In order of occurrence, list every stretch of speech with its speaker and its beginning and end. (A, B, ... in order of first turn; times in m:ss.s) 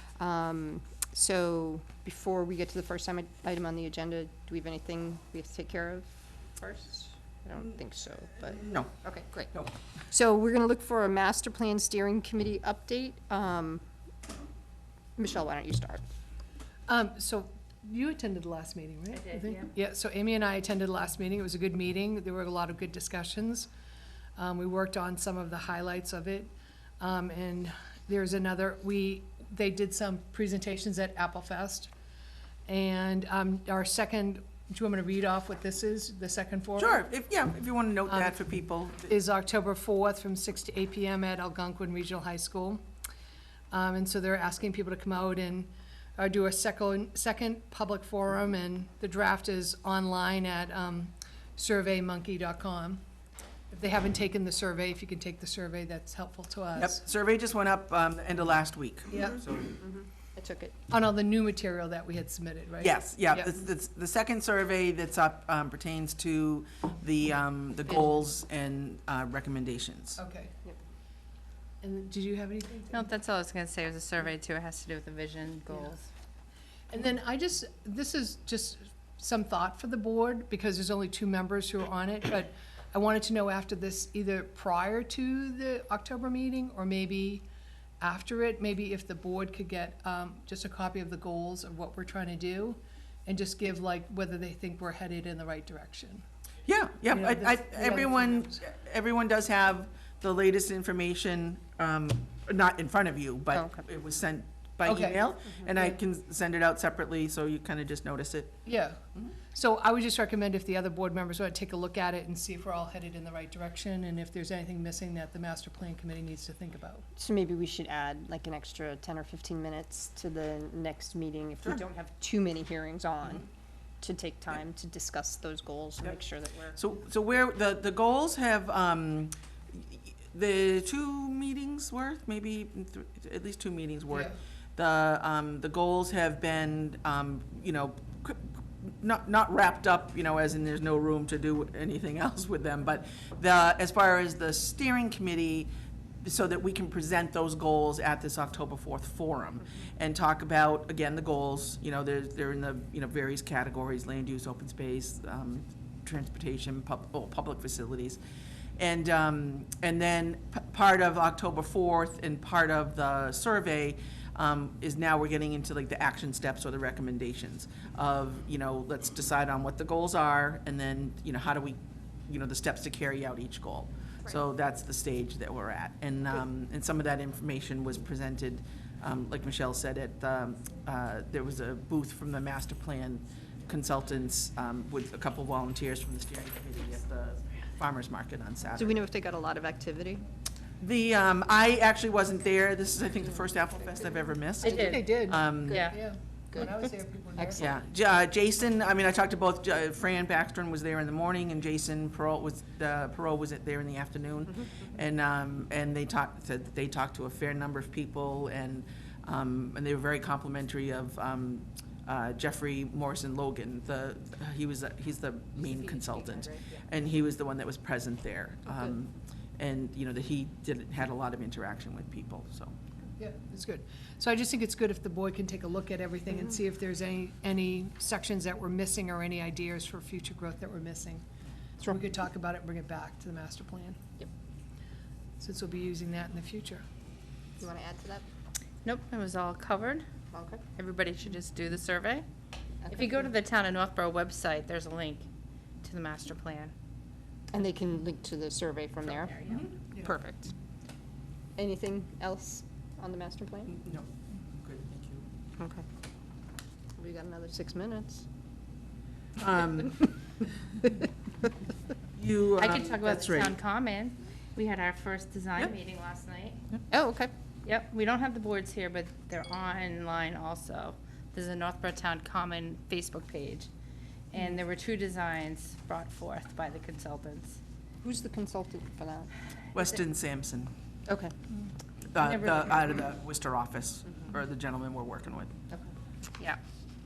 0:00.2-0:09.5 A
0:08.5-0:08.9 B
0:10.1-0:13.8 A
0:15.2-0:16.0 A
0:16.9-0:23.7 C
0:19.1-0:19.7 D
0:24.4-0:31.9 C
0:32.7-0:37.0 C
0:36.8-0:39.1 B
0:38.1-0:38.3 C
0:39.1-0:42.8 C
0:43.7-0:53.0 C
0:53.7-0:57.0 C
0:56.8-0:59.8 B
0:59.8-1:00.8 A
1:00.9-1:03.6 C
1:02.8-1:10.2 B
1:10.2-1:10.6 C
1:11.8-1:13.1 C
1:12.9-1:16.1 D
1:16.9-1:27.4 C
1:28.0-1:36.2 C
1:36.7-1:48.6 B
1:37.1-1:38.5 C
1:44.8-1:45.2 C
1:48.6-1:49.0 C
1:49.5-1:57.0 C
1:57.2-2:03.5 A
2:04.0-2:06.8 A
2:06.8-2:25.7 B
2:26.2-2:38.2 B
2:38.8-3:08.9 B
3:08.8-3:10.2 A
3:10.8-3:15.9 B
3:14.6-3:17.7 C
3:14.6-3:15.1 D
3:15.7-3:16.0 D
3:16.5-3:16.8 A
3:17.4-3:17.6 A
3:17.6-3:42.8 B
3:35.6-3:36.8 A
3:43.2-3:51.2 C
3:51.8-3:54.0 C
3:55.4-3:56.8 C
3:57.6-3:58.3 A
3:58.8-4:00.1 D
4:00.3-4:00.6 A
4:00.8-4:02.3 D
4:02.8-4:03.2 A
4:02.9-4:05.3 D
4:05.8-4:06.7 D
4:07.5-4:10.5 A
4:09.2-4:09.6 D
4:09.5-4:09.7 B
4:11.6-4:13.8 A
4:13.7-4:14.1 B
4:14.6-4:15.2 B
4:15.6-4:15.8 A
4:17.0-4:18.3 A
4:19.4-4:20.1 B
4:22.2-4:23.6 B
4:22.6-4:26.6 D
4:26.9-4:27.3 A
4:27.7-4:33.7 D
4:34.3-4:37.6 D
4:38.0-4:39.3 A
4:39.7-4:40.7 B
4:41.1-4:41.3 A
4:42.1-4:45.6 B
4:42.2-4:42.9 D